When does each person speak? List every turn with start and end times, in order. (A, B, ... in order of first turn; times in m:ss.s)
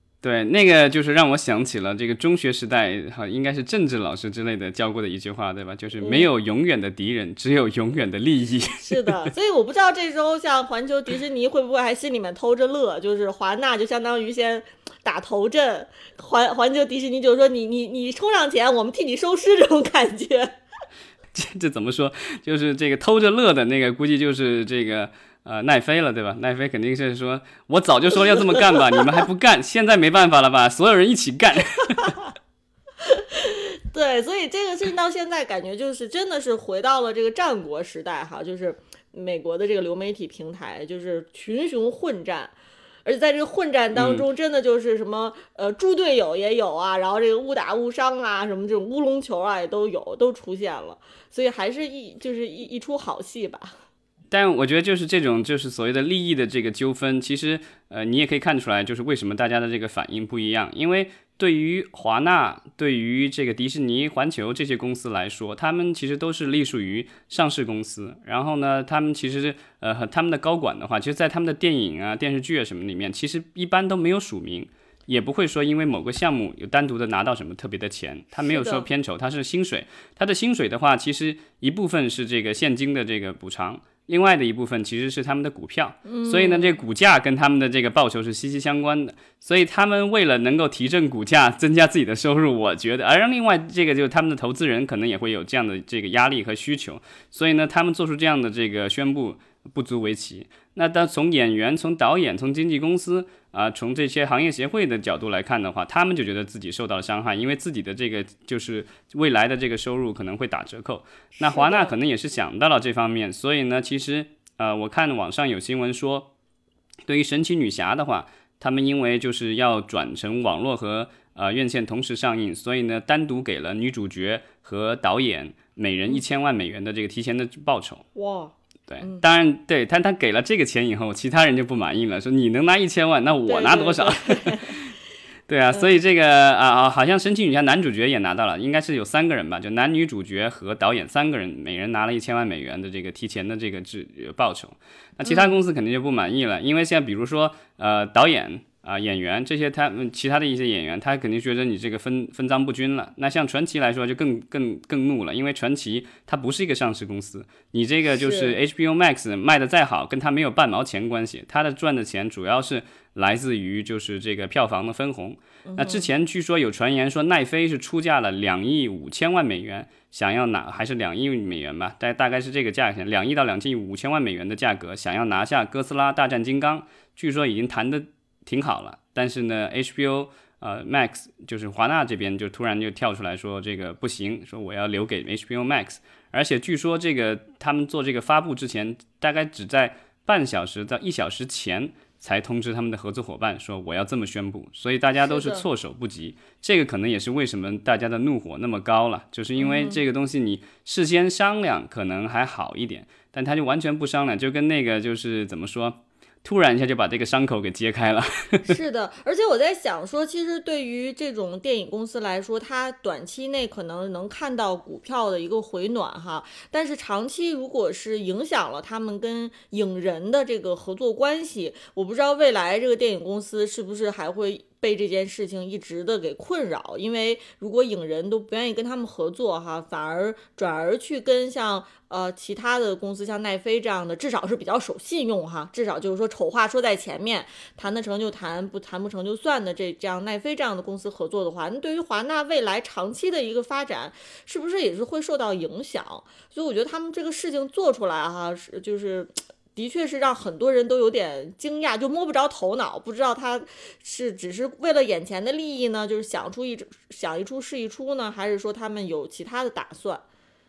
0:00.2-0:09.3 A
0:06.0-0:06.3 B
0:08.8-0:20.6 B
0:21.3-0:32.2 A
0:28.6-0:29.0 B
0:33.0-0:53.8 B
0:43.9-0:44.2 A
0:54.3-1:56.3 A
1:18.4-1:18.8 B
1:26.0-1:26.8 B
1:51.4-1:51.9 B
1:57.1-2:08.0 A
2:08.1-2:09.2 B
2:08.9-2:14.9 A
2:13.4-2:14.8 B
2:15.5-3:28.7 A
2:25.2-2:25.6 B
2:38.1-2:38.6 B
2:45.6-2:46.0 B
3:15.2-3:15.6 B
3:19.6-3:20.0 B
3:28.6-4:20.2 B